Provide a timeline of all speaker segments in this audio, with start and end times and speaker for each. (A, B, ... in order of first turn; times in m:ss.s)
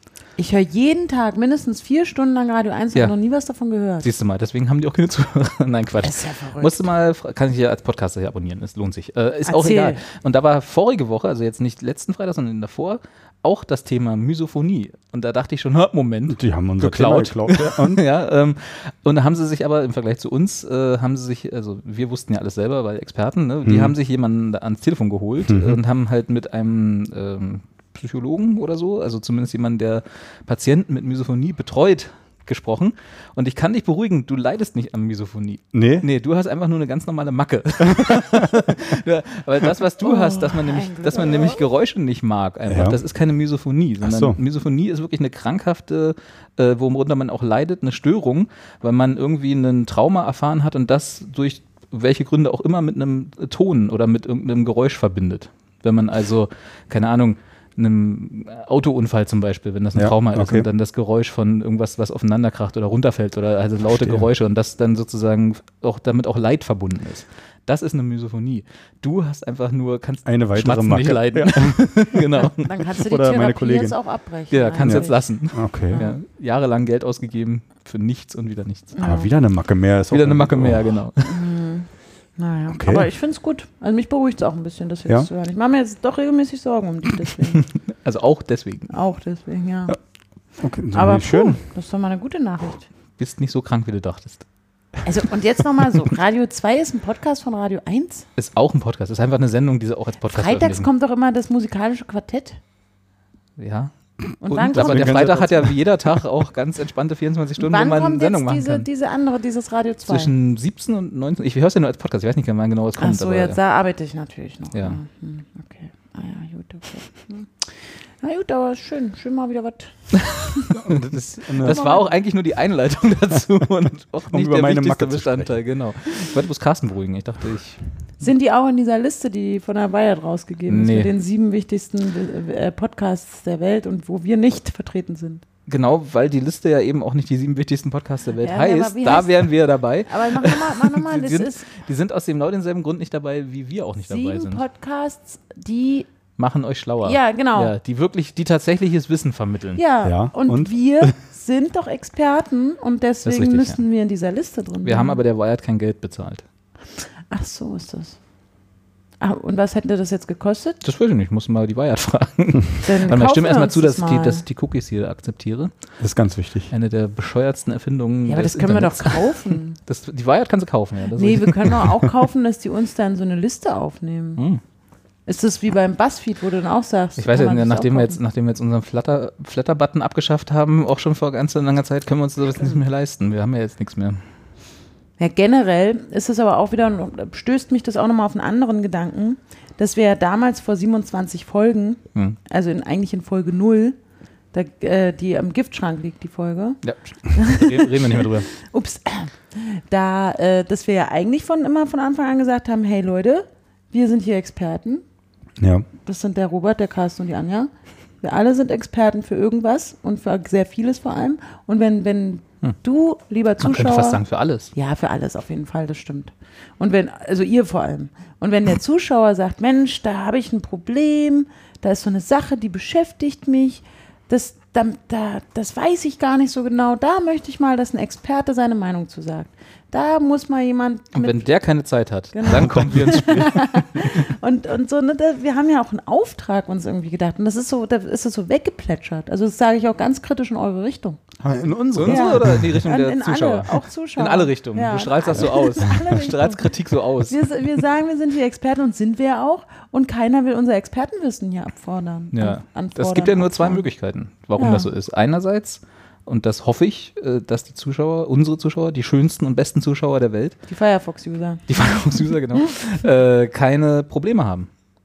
0:00.4-0:04.1 A
0:04.0-1:12.8 B
0:06.0-0:06.7 A
0:09.5-0:10.0 A
0:16.3-0:18.0 C
0:23.6-0:23.9 C
0:25.5-0:25.8 C
0:35.7-0:36.1 C
0:37.9-0:38.5 C
0:40.0-0:41.6 A
0:42.7-0:43.0 C
0:44.0-0:44.4 C
0:59.9-1:00.7 C
1:03.9-1:04.3 C
1:10.2-1:12.0 C
1:12.3-1:15.4 A
1:12.9-1:14.0 C
1:14.5-1:18.9 B
1:14.8-1:16.0 C
1:15.9-1:16.2 A
1:19.0-1:19.3 A
1:19.0-1:20.9 C
1:20.1-1:21.4 B
1:21.2-1:27.6 A
1:22.7-1:23.1 C
1:27.7-1:28.9 B
1:28.9-1:30.0 A
1:30.6-1:31.6 C
1:30.9-1:32.9 A
1:33.2-1:34.4 B
1:35.0-1:38.2 A
1:38.4-1:40.9 B
1:40.3-1:42.6 A
1:43.6-1:48.9 B
1:44.4-1:45.2 A
1:44.7-1:45.9 C
1:47.6-1:50.3 A
1:50.1-1:53.6 B
1:53.0-1:57.5 A
1:54.7-1:55.0 B
1:58.2-2:00.7 A
2:00.2-2:07.8 B
2:00.7-2:01.8 C
2:01.6-2:02.1 A
2:04.3-2:05.6 C
2:08.2-2:15.4 A
2:10.7-2:11.1 B
2:15.7-2:24.6 B
2:18.4-2:19.4 A
2:20.1-2:21.7 A
2:24.0-2:26.1 A
2:26.4-2:29.8 B
2:27.0-2:27.7 A
2:29.8-2:35.2 A
2:30.0-2:31.2 C
2:33.2-2:33.8 B
2:34.8-2:36.4 B
2:37.3-2:38.2 A
2:39.2-2:40.8 A
2:40.8-2:45.7 B
2:42.8-2:44.4 A
2:46.0-2:46.7 C
2:46.7-2:52.0 B
2:48.3-2:49.8 A
2:51.2-2:54.4 A
2:55.3-2:58.2 A
2:57.2-3:04.2 B
3:05.2-3:14.0 A
3:14.5-3:16.8 A
3:16.8-3:18.5 B
3:17.3-3:25.0 A
3:25.6-3:25.9 C
3:26.0-3:27.7 A
3:28.2-3:34.2 A
3:33.6-3:34.7 B
3:34.7-3:51.5 A
3:51.2-3:54.0 B
3:52.3-4:01.2 A
4:01.4-4:02.8 C
4:01.9-4:07.4 B
4:02.0-4:13.8 A
4:12.3-4:20.6 B
4:14.6-4:14.9 A
4:20.7-4:22.3 A
4:21.7-4:24.7 B